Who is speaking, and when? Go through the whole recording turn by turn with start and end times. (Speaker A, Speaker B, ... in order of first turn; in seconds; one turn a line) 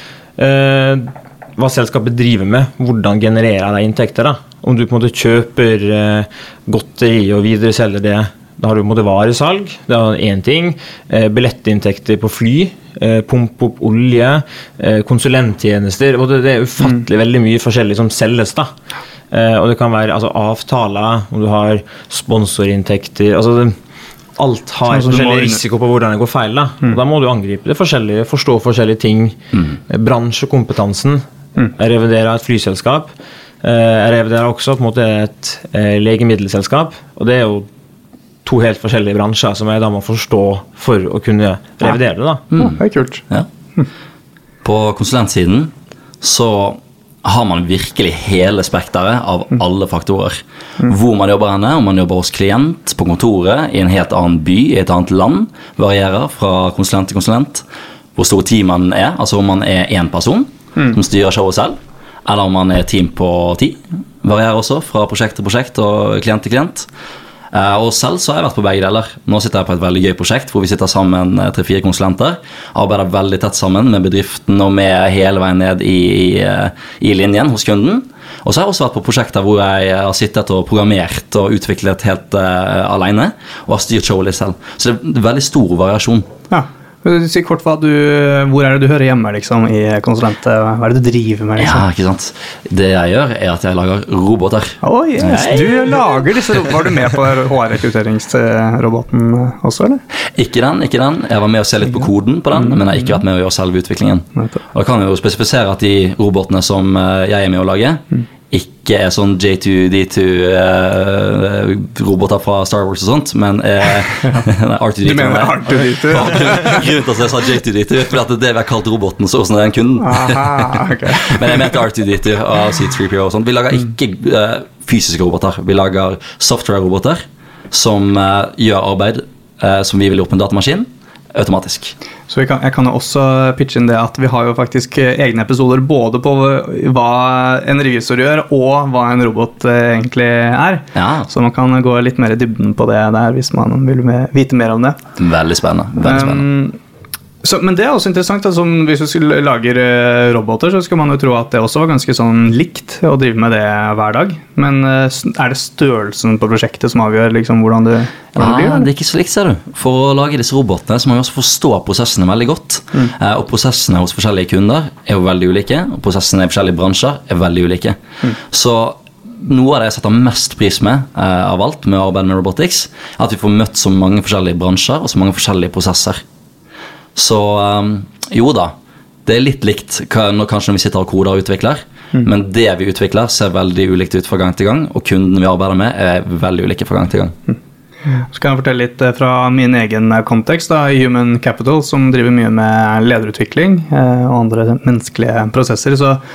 Speaker A: 0.4-18.7
Speaker A: 19.3-23.8
Speaker A: 24.4-29.4
Speaker B: 24.9-25.6
Speaker A: 29.9-31.2
Speaker A: 31.8-33.1
Speaker A: 33.6-37.7
Speaker A: 38.4-42.5
Speaker C: 42.5-43.5
Speaker B: 42.5-43.2
Speaker C: 44.6-57.6
Speaker C: 58.1-66.9
Speaker C: 67.5-86.2
Speaker B: 86.5-91.8
Speaker C: 91.6-95.6
Speaker B: 94.8-100.0
Speaker C: 100.3-131.9
Speaker B: 115.0-116.8
Speaker B: 120.0-121.8
Speaker B: 132.3-145.0
Speaker C: 140.9-141.3
Speaker C: 145.2-146.5
Speaker B: 146.0-146.8
Speaker B: 147.4-158.9
Speaker C: 158.3-176.2
Speaker C: 177.1-178.7
Speaker C: 179.2-187.3
Speaker B: 188.1-196.2